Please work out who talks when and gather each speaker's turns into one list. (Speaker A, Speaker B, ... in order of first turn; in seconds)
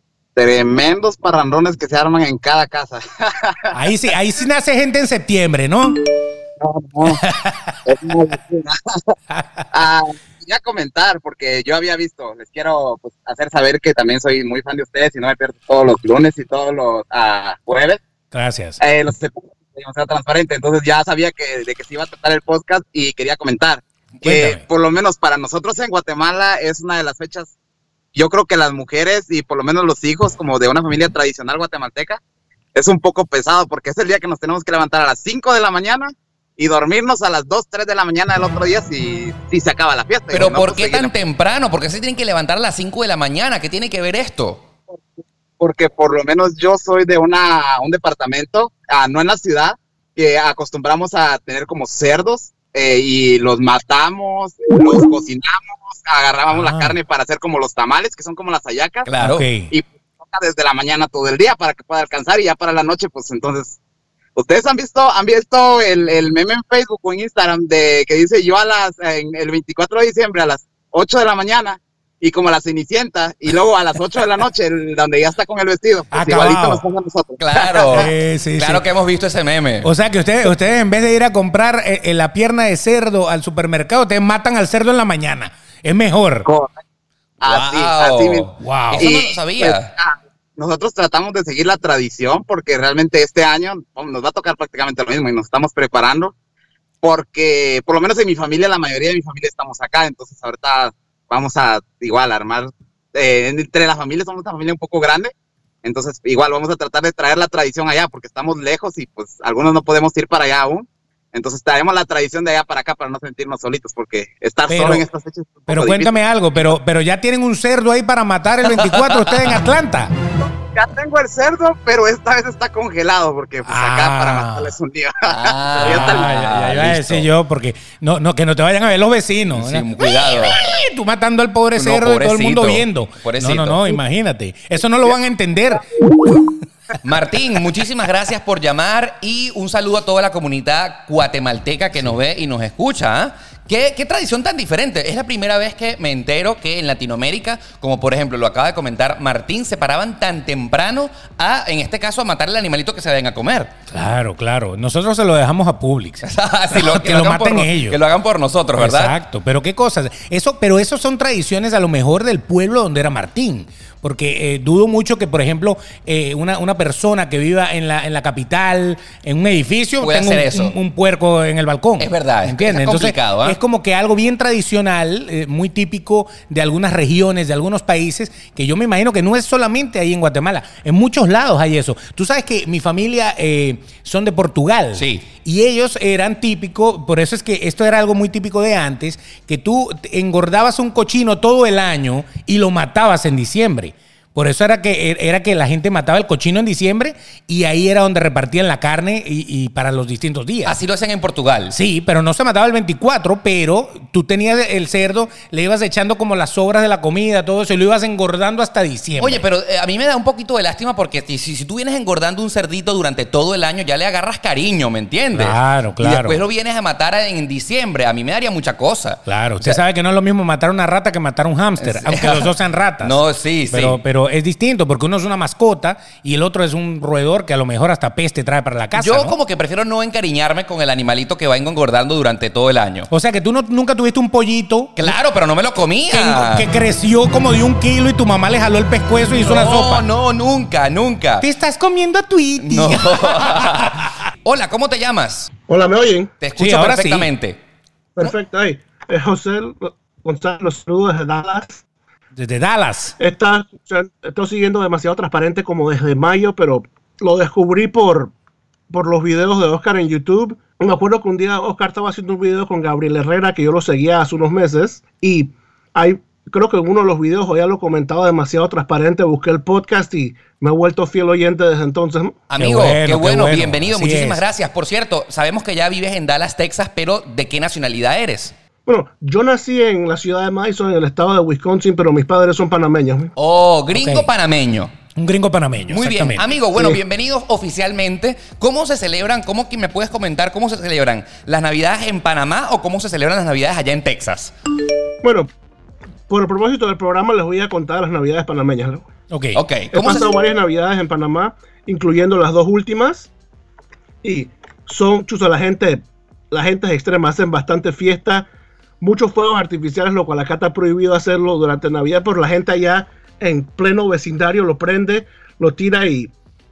Speaker A: 0.3-3.8, 6.6-7.2, 7.8-9.1, 9.7-18.0, 18.8-27.5, 28.1-32.2, 32.7-41.1, 45.6-59.1, 59.7-63.8, 64.3-78.0, 86.4-86.8, 87.4-96.3, 97.0-105.3, 105.8-116.7, 120.7-126.3
Speaker B: 3.7-6.0, 7.0-7.7, 9.3-9.6, 18.3-18.8, 24.2-24.6, 56.5-57.0, 59.2-59.7, 76.1-76.8, 77.9-78.8, 79.8-86.5, 88.6-89.1, 114.7-115.0, 115.7-120.1, 123.7-124.7, 125.8-135.8, 153.9-158.0, 158.8-200.8, 201.7-209.4, 215.3-216.4, 219.2-223.2, 223.7-229.3, 233.1-235.2, 236.1-240.0, 241.4-244.1, 246.6-247.3, 252.3-253.1, 272.6-274.4, 283.9-284.3, 285.1-286.5, 299.3-299.6
Speaker C: 40.3-44.6, 59.0-59.5, 77.4-79.9, 87.4-89.9, 118.6-119.6, 125.3-127.3, 129.5-130.6, 131.7-134.0, 137.0-153.7, 156.2-159.2, 170.0-170.7, 172.0-173.6, 184.9-185.2, 200.6-201.7, 209.2-219.8, 221.8-224.0, 228.9-233.1, 235.0-236.7, 239.4-241.5, 242.6-245.5, 246.4-247.6, 272.5-278.5, 283.4-284.9, 285.9-294.5, 299.5-300.3
Speaker D: 245.7-246.3, 248.2-251.8, 253.2-258.3, 258.9-272.3, 278.9-283.3, 295.2-295.5, 296.3-299.1, 299.9-303.3, 304.2-308.5, 309.0-316.3